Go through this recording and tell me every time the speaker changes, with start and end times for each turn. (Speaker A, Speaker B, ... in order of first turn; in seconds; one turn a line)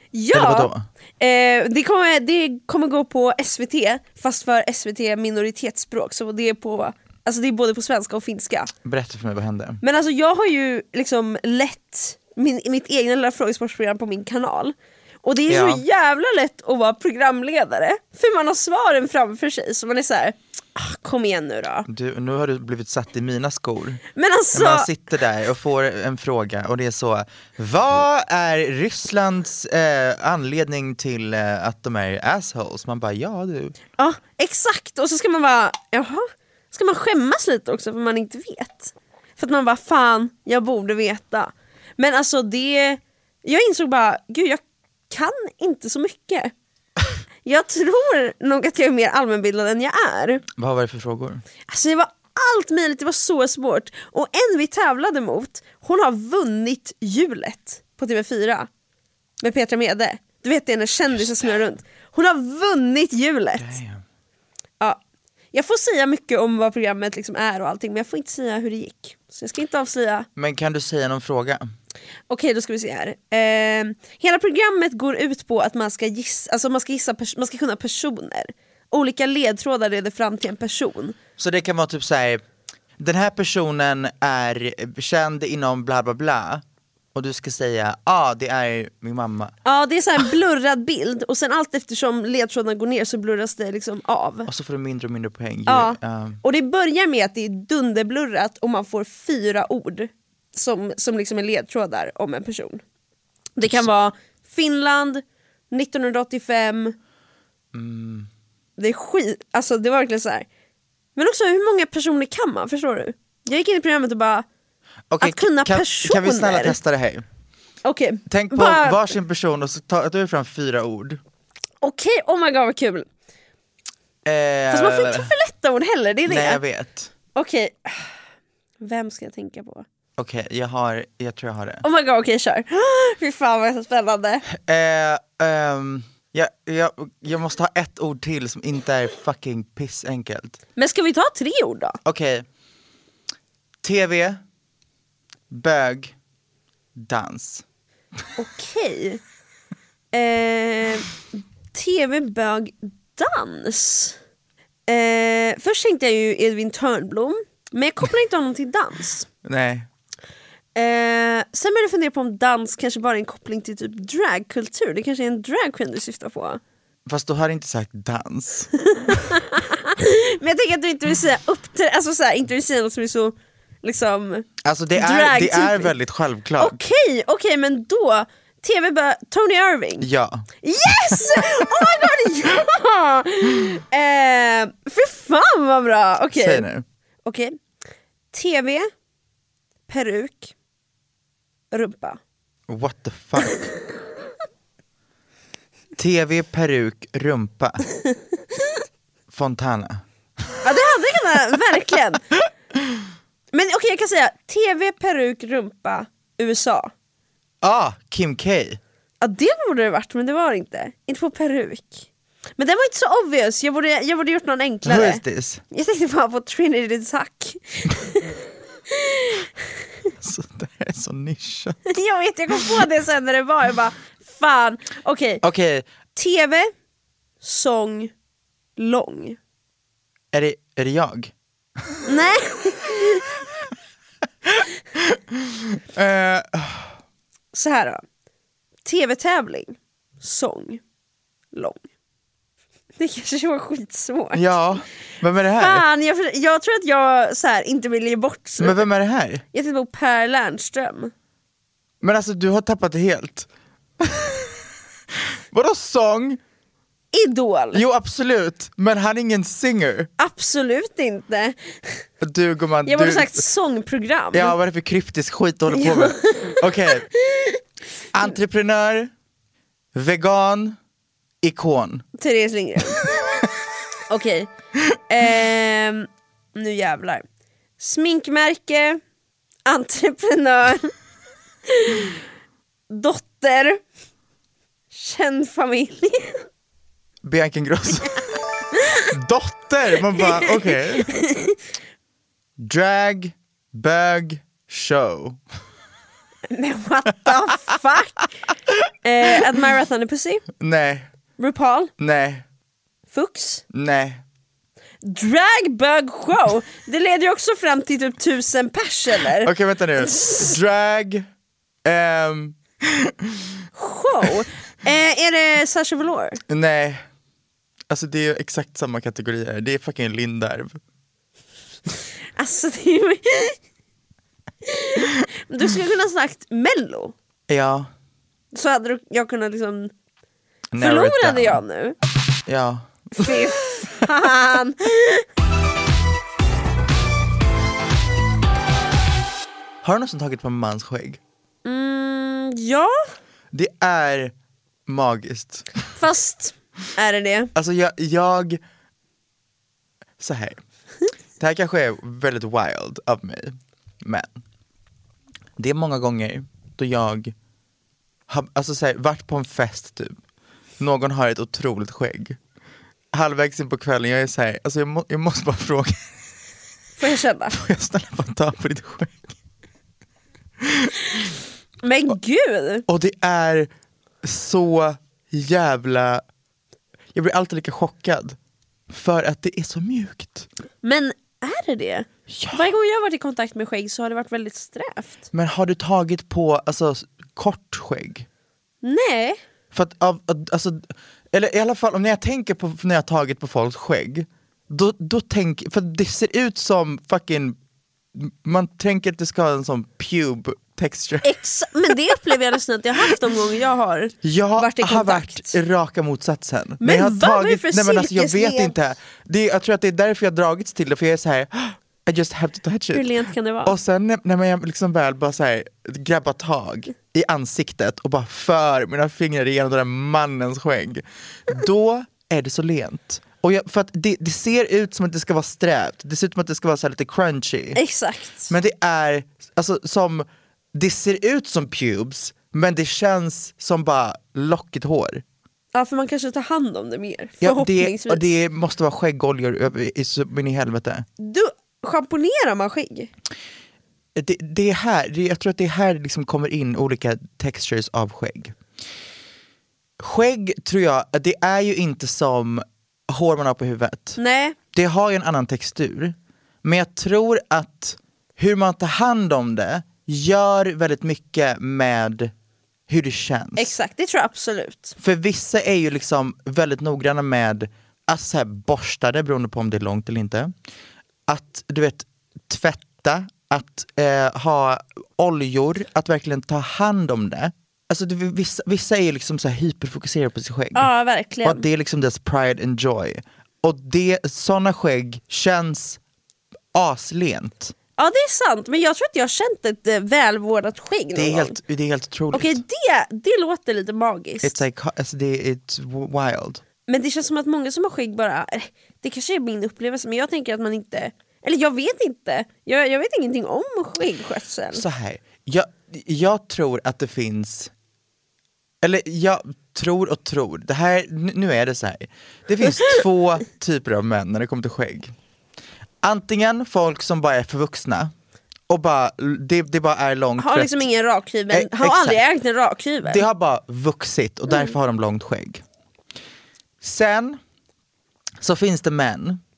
Speaker A: 0.1-8.7
Speaker B: 0.3-0.8
Speaker B: 8.8-9.8
Speaker A: 9.8-21.9
Speaker B: 15.5-15.8
Speaker B: 21.9-24.0
Speaker A: 24.1-24.9
Speaker B: 24.5-33.7
Speaker A: 34.0-46.5
Speaker A: 47.4-50.4
Speaker B: 50.5-51.4
Speaker A: 51.7-58.7
Speaker A: 59.4-63.7
Speaker B: 63.6-64.0
Speaker A: 65.5-70.3
Speaker B: 70.3-71.7
Speaker A: 72.3-81.2
Speaker B: 81.4-82.4
Speaker B: 83.0-86.6
Speaker B: 87.1-89.5
Speaker A: 89.6-94.5
Speaker B: 94.5-96.4
Speaker A: 95.7-102.8
Speaker A: 103.6-106.9
Speaker B: 107.7-108.3
Speaker A: 108.8-110.5
Speaker A: 111.2-114.4
Speaker B: 115.1-117.2
Speaker A: 115.2-116.8
Speaker A: 117.8-119.1
Speaker B: 118.3-121.2
Speaker A: 121.8-123.1
Speaker B: 124.2-125.3
Speaker A: 124.7-126.6
Speaker B: 126.2-127.1
Speaker A: 127.3-128.1
Speaker A: 128.8-129.8
Speaker B: 130.2-131.8
Speaker A: 131.8-134.4
Speaker B: 134.5-140.6
Speaker A: 140.8-142.0
Speaker B: 142.0-142.4
Speaker B: 143.8-144.4
Speaker B: 145.5-146.1
Speaker B: 146.9-147.6
Speaker A: 148.4-149.2
Speaker A: 150.1-151.2
Speaker A: 151.7-154.2
Speaker A: 154.9-159.3
Speaker B: 159.4-159.9
Speaker A: 160.7-166.6
Speaker B: 167.1-168.7
Speaker A: 168.9-175.9
Speaker B: 174.6-176.8
Speaker A: 176.6-180.1
Speaker B: 180.0-182.1
Speaker A: 180.6-186.7
Speaker B: 186.4-186.8
Speaker A: 187.2-187.6
Speaker A: 188.3-188.9
Speaker A: 189.9-190.5
Speaker A: 191.7-192.2
Speaker B: 192.7-193.7
Speaker B: 196.0-197.8
Speaker B: 199.3-200.0
Speaker A: 200.6-202.3
Speaker A: 203.5-206.9
Speaker B: 207.6-208.8
Speaker A: 209.2-215.2
Speaker B: 214.8-215.6
Speaker A: 215.7-218.4
Speaker A: 218.9-219.5
Speaker B: 220.2-221.9
Speaker A: 221.9-225.4
Speaker B: 225.4-225.9
Speaker A: 226.2-226.7
Speaker A: 227.4-228.1
Speaker A: 228.8-229.4
Speaker B: 230.3-231.3
Speaker A: 232.1-233.3
Speaker B: 234.4-237.0
Speaker A: 237.5-238.0
Speaker A: 238.8-240.8
Speaker A: 241.5-241.8
Speaker A: 243.0-244.5
Speaker B: 244.3-245.8
Speaker A: 245.6-248.8
Speaker B: 248.6-249.4
Speaker A: 249.5-251.1
Speaker B: 252.0-253.5
Speaker B: 254.0-254.5
Speaker B: 255.5-256.4
Speaker A: 257.1-257.8
Speaker B: 257.7-260.1
Speaker A: 260.2-262.0
Speaker B: 262.2-263.4
Speaker A: 262.9-264.5
Speaker B: 264.3-267.1
Speaker A: 265.7-267.6
Speaker B: 268.1-269.1
Speaker B: 269.9-270.8
Speaker B: 271.4-272.0
Speaker A: 272.2-273.2
Speaker A: 274.1-274.5
Speaker A: 275.1-277.2
Speaker A: 277.8-279.0
Speaker A: 279.6-280.9
Speaker A: 281.7-282.2
Speaker A: 282.9-283.8
Speaker A: 284.9-286.4
Speaker B: 287.2-288.3
Speaker B: 289.1-291.1
Speaker A: 290.2-291.6
Speaker B: 292.6-295.4
Speaker A: 296.5-298.3
Speaker A: 299.0-300.5
Speaker B: 300.6-301.1
Speaker A: 301.4-301.9
Speaker B: 302.0-302.4
Speaker A: 303.1-303.6
Speaker B: 303.7-304.2
Speaker A: 305.0-310.6
Speaker B: 309.4-311.2
Speaker B: 311.8-313.6
Speaker A: 313.8-316.4
Speaker B: 316.5-317.0
Speaker B: 317.9-320.8
Speaker A: 322.4-323.6
Speaker A: 324.6-327.1
Speaker B: 327.5-327.9
Speaker A: 328.5-329.9
Speaker B: 330.7-331.6
Speaker A: 330.8-331.9
Speaker B: 332.4-333.4
Speaker A: 333.2-335.2
Speaker B: 339.8-341.2
Speaker A: 341.6-342.9
Speaker B: 343.5-344.3
Speaker B: 344.9-345.7
Speaker A: 345.9-347.5
Speaker B: 347.5-348.6
Speaker B: 350.2-350.6
Speaker B: 351.4-354.4
Speaker B: 355.6-357.3
Speaker B: 358.3-360.2
Speaker B: 360.8-362.4
Speaker B: 363.1-366.1
Speaker A: 367.0-367.6
Speaker B: 367.5-369.4
Speaker B: 370.6-371.3
Speaker A: 371.8-372.8
Speaker B: 372.9-373.7
Speaker B: 374.2-376.2
Speaker B: 377.1-378.4
Speaker B: 378.9-380.5
Speaker A: 380.8-385.2
Speaker B: 382.3-382.7
Speaker B: 385.3-388.3
Speaker A: 388.8-389.4
Speaker B: 389.7-397.6
Speaker B: 398.1-401.3
Speaker A: 401.2-405.5
Speaker B: 404.2-413.1
Speaker A: 406.8-408.7
Speaker A: 412.9-413.8
Speaker B: 413.6-427.8
Speaker A: 427.7-428.5
Speaker B: 428.5-435.2
Speaker A: 435.7-438.2
Speaker B: 437.4-441.1
Speaker A: 441.2-443.1
Speaker B: 444.1-448.6
Speaker B: 450.0-454.2
Speaker A: 454.2-454.6
Speaker B: 454.7-462.3
Speaker B: 462.9-463.7
Speaker A: 463.6-464.9
Speaker B: 465.0-470.5
Speaker B: 471.3-480.9
Speaker A: 480.7-481.6
Speaker B: 481.4-486.0
Speaker B: 486.7-487.7
Speaker A: 488.0-491.6
Speaker B: 491.1-492.6
Speaker A: 492.3-494.6
Speaker B: 494.4-496.6
Speaker A: 496.9-504.8
Speaker B: 504.7-507.7
Speaker B: 508.8-515.1
Speaker B: 516.0-518.1
Speaker B: 518.7-520.8
Speaker A: 520.4-523.2
Speaker B: 521.5-522.2
Speaker B: 523.0-525.6
Speaker B: 526.8-527.4
Speaker B: 528.4-529.4